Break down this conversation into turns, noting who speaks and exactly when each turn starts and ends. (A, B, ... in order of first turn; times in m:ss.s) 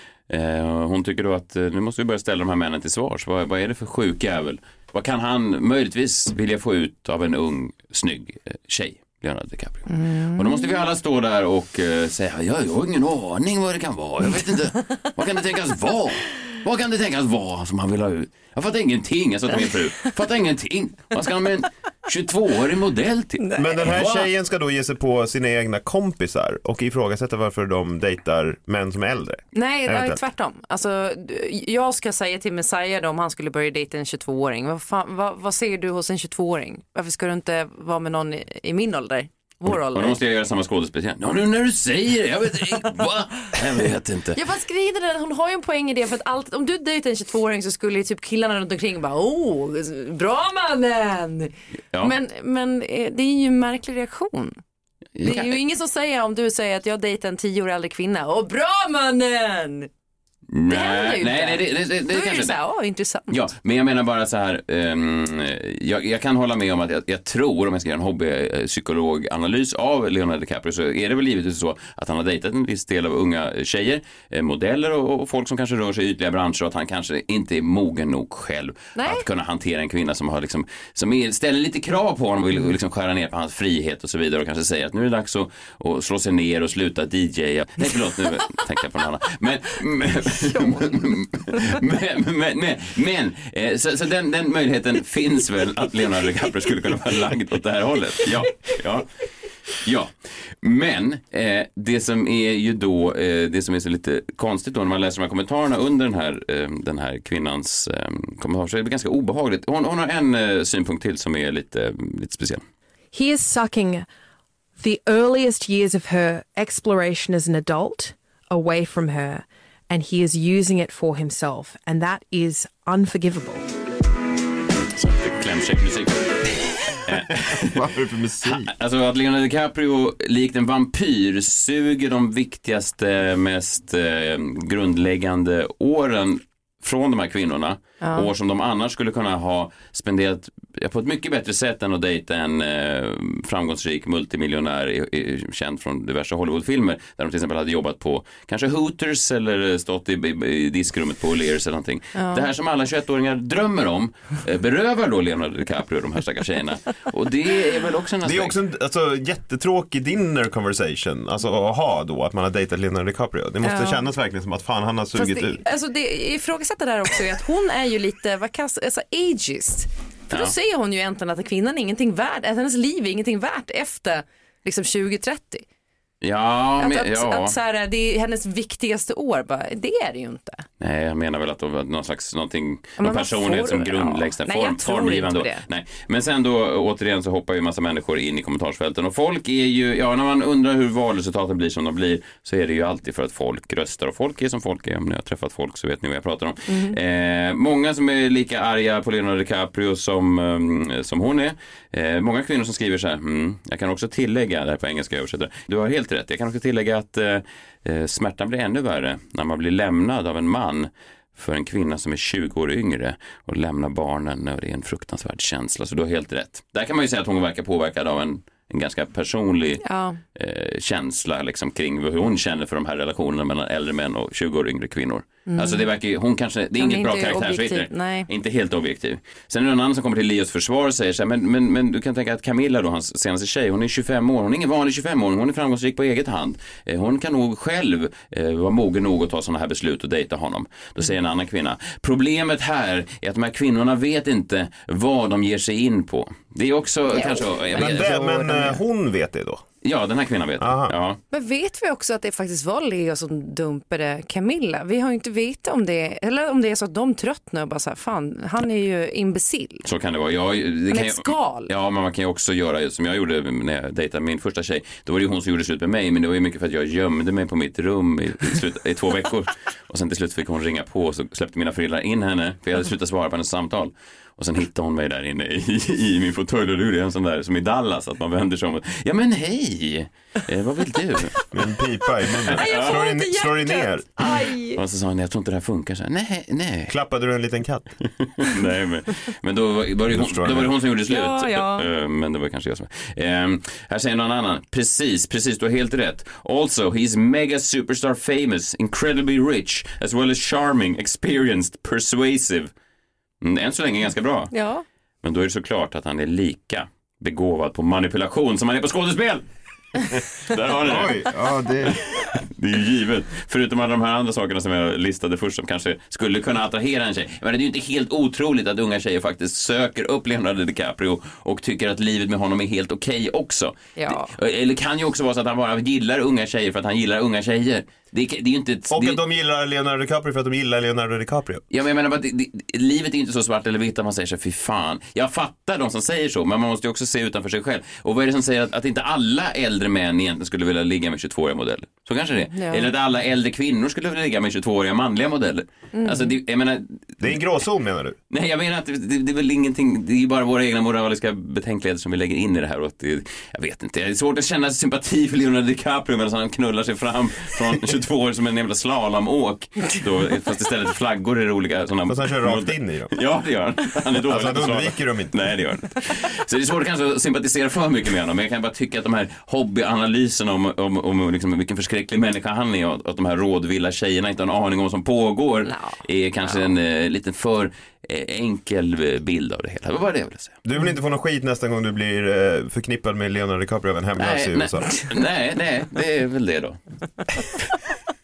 0:00.3-0:24.3 A
0:09.9-0:10.8 B
0:23.4-0:23.8 B
0:23.6-0:30.2 C
0:29.5-0:40.2 B
0:39.6-0:44.4 A
0:44.4-0:54.6 B
0:55.2-0:55.5 A
0:55.2-0:59.9 B
1:00.5-1:02.6 A
1:00.7-1:03.5 B
1:03.3-1:39.1 A
1:19.0-1:19.2 B
1:39.8-1:52.6 A
1:53.1-1:54.0 D
1:54.8-2:03.7 D
2:04.8-2:07.9 A
2:07.4-2:08.7 C
2:08.4-2:38.6 A
2:18.0-2:18.3 B
2:32.1-2:32.5 B
2:38.2-2:45.6 C
2:43.6-2:44.0 B
2:45.1-2:55.6 B
2:56.2-2:57.5 A
2:56.8-3:00.6 B
3:00.8-3:39.8 A
3:03.0-3:05.6 B
3:16.7-3:17.0 B
3:39.8-3:40.2 B
3:40.3-4:08.7 A
3:45.5-3:45.9 B
3:46.7-3:48.3 B
4:07.1-4:08.2 B
4:07.7-4:09.6 C
4:09.8-4:11.2 A
4:10.6-4:11.0 C
4:11.3-4:19.8 B
4:19.8-4:41.4 A
4:20.9-4:21.7 B
4:41.5-4:44.1 C
4:42.5-4:42.9 A
4:42.5-4:44.8 B
4:44.7-4:47.0 A
4:46.9-4:47.9 C
4:48.0-5:02.7 A
4:50.1-4:50.7 C
4:51.1-4:51.8 B
5:03.4-5:04.5 A
5:04.5-5:04.8 B
5:05.2-5:09.4 A
5:10.4-5:11.2 A
5:10.8-5:12.0 C
5:12.3-5:29.2 A
5:24.0-5:24.3 B
5:28.9-5:31.6 C
5:31.7-5:47.4 A
5:42.5-5:42.9 B
5:45.9-5:46.3 B
5:47.2-5:48.2 C
5:48.3-6:20.6 A
6:02.1-6:03.1 C
6:04.2-6:05.4 C
6:15.7-6:16.6 B
6:20.6-6:25.0 C
6:24.2-6:26.8 A